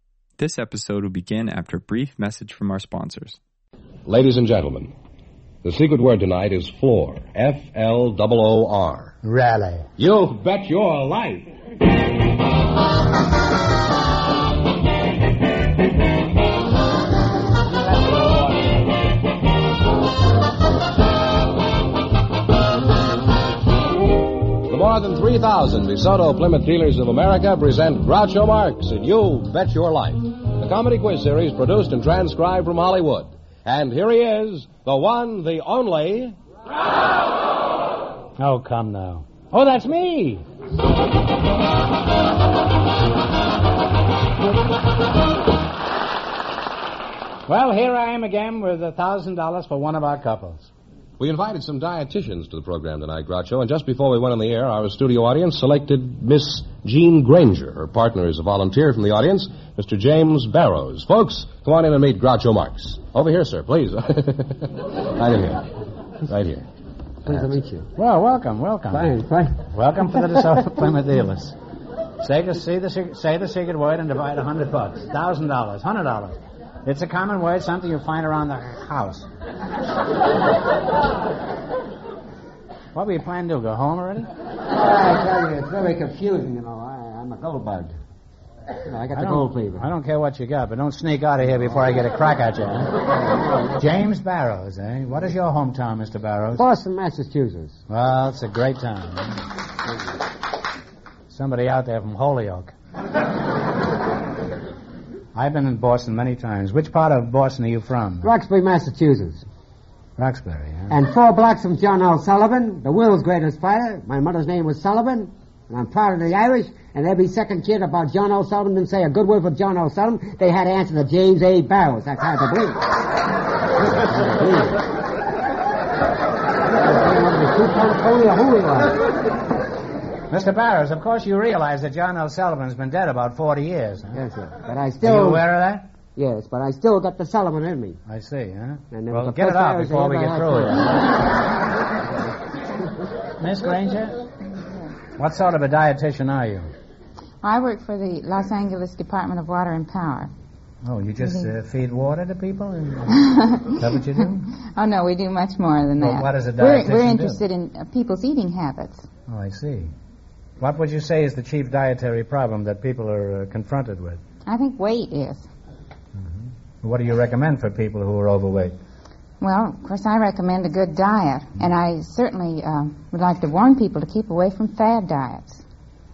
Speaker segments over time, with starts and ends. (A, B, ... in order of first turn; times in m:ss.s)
0:00.4-0:03.4 A
0:04.1-0:04.9 B
0:05.6-0:09.1 B
0:09.2-0:09.9 C
0:10.0-0:11.5 B
0:24.6-0:36.4 B
0:38.4-0:40.4 C
0:47.5-0:50.7 C
0:51.2-1:05.7 B
1:06.2-1:06.6 B
1:07.2-1:07.9 D
1:08.0-1:09.1 C
1:08.9-1:09.6 D
1:09.7-1:11.6 C
1:12.2-1:19.3 C
1:23.0-1:24.3 C
1:24.7-1:28.0 D
1:28.8-1:29.9 D
1:29.2-1:32.9 C
1:33.8-1:36.6 C
1:36.6-1:37.8 D
1:37.9-1:39.4 C
1:41.3-1:42.7 C
1:45.4-1:48.3 C
1:48.2-1:49.4 D
1:50.2-1:51.0 C
1:50.9-2:03.0 D
2:03.8-2:04.8 D
2:06.7-2:09.0 D
2:10.3-2:14.2 C
2:14.1-2:15.5 D
2:15.0-2:15.9 C
2:16.2-2:18.0 D
2:18.1-2:20.9 C
2:18.9-2:20.9 D
2:23.4-2:24.2 C
2:25.2-2:26.7 C
2:27.4-2:30.3 E
2:30.8-2:33.1 C
2:31.2-2:31.5 E
2:33.1-2:39.1 E
2:33.8-2:34.4 C
2:36.0-2:37.4 C
2:39.3-2:39.9 C
2:40.6-2:44.2 C
2:44.5-2:45.5 E
2:46.2-2:48.8 C
2:49.4-2:55.6 E